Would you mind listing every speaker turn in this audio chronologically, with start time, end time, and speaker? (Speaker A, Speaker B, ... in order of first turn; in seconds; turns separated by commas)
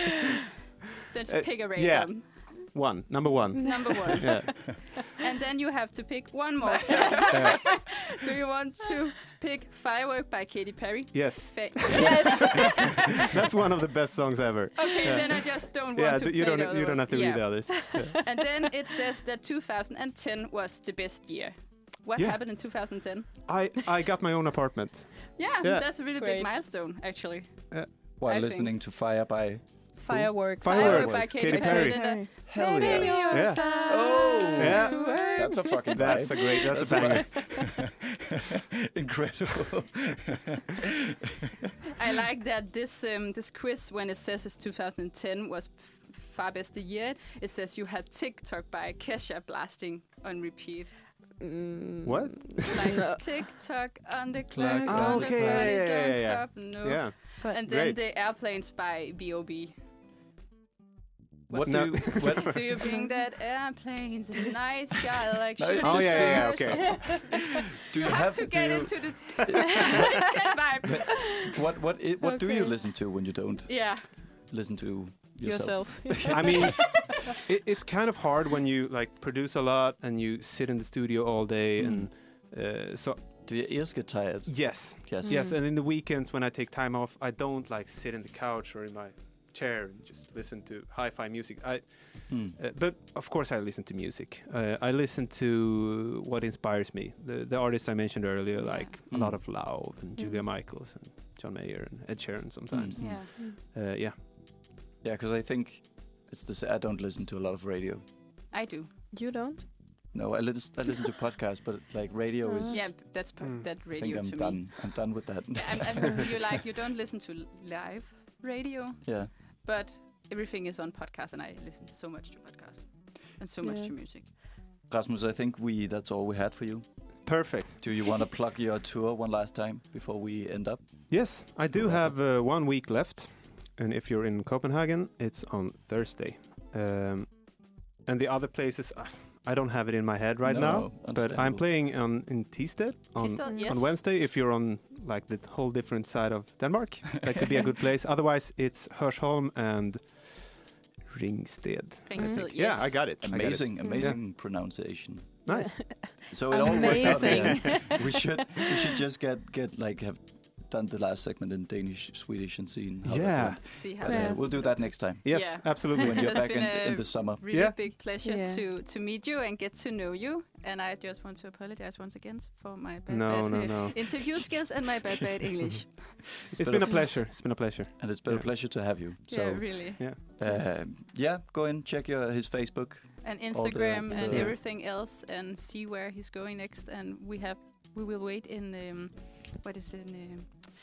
Speaker A: 1.1-2.6, Speaker B: 1.3-4.7, Speaker C: 3.5-4.5, Speaker A: 3.6-13.3, Speaker C: 7.0-7.3, Speaker B: 7.3-7.7, Speaker B: 11.1-18.3, Speaker C: 11.9-12.8, Speaker A: 14.8-23.5, Speaker C: 17.9-18.2, Speaker B: 22.2-22.5, Speaker B: 23.4-25.9, Speaker A: 25.4-28.7, Speaker C: 25.9-26.5, Speaker D: 28.2-29.9, Speaker C: 30.0-37.4, Speaker B: 30.1-32.3, Speaker A: 30.6-35.9, Speaker D: 30.8-31.2, Speaker D: 32.5-41.7, Speaker B: 33.3-33.8, Speaker B: 34.6-35.3, Speaker B: 35.9-37.8, Speaker A: 41.9-50.9, Speaker C: 51.4-53.2, Speaker B: 52.0-53.0, Speaker A: 52.7-59.7, Speaker D: 54.5-55.7, Speaker B: 54.9-58.0, Speaker D: 61.5-62.6, Speaker A: 61.5-67.4, Speaker B: 61.6-62.8, Speaker C: 62.9-63.1, Speaker D: 65.6-70.3, Speaker B: 65.8-67.2, Speaker C: 66.7-67.0, Speaker A: 68.0-71.5, Speaker C: 69.9-70.2, Speaker D: 70.9-76.9, Speaker C: 72.2-72.8, Speaker A: 73.7-74.1, Speaker C: 75.4-77.0, Speaker B: 76.3-83.5, Speaker D: 81.8-82.1, Speaker D: 83.4-85.5, Speaker B: 84.5-104.2, Speaker C: 85.2-85.6, Speaker D: 92.3-92.6, Speaker A: 98.6-98.9, Speaker D: 99.1-99.4, Speaker C: 100.2-100.5, Speaker D: 102.7-103.2, Speaker A: 103.0-103.3, Speaker D: 105.0-108.0, Speaker A: 108.5-108.9, Speaker C: 109.1-109.7, Speaker D: 110.1-113.0, Speaker C: 112.4-112.9, Speaker A: 112.7-124.3, Speaker B: 113.4-113.7, Speaker D: 113.9-116.3, Speaker D: 119.0-119.3, Speaker C: 123.6-123.9, Speaker D: 124.9-132.1, Speaker B: 127.2-128.0, Speaker B: 131.1-154.2, Speaker D: 140.4-141.6, Speaker A: 143.2-144.0, Speaker C: 143.4-143.8, Speaker A: 152.1-153.2, Speaker C: 152.2-152.5, Speaker D: 153.2-155.5, Speaker C: 153.8-154.1, Speaker B: 155.4-158.0, Speaker C: 155.5-158.6, Speaker D: 156.3-167.5, Speaker A: 156.6-157.7, Speaker B: 163.0-164.7, Speaker A: 163.6-176.5, Speaker C: 164.1-164.4, Speaker B: 165.2-166.4, Speaker B: 167.5-167.8, Speaker C: 168.2-168.6, Speaker B: 173.1-174.3, Speaker B: 176.5-178.5, Speaker D: 176.5-177.2, Speaker D: 178.0-184.6, Speaker A: 179.3-180.1, Speaker B: 180.0-180.8, Speaker A: 183.2-190.7, Speaker B: 184.3-184.5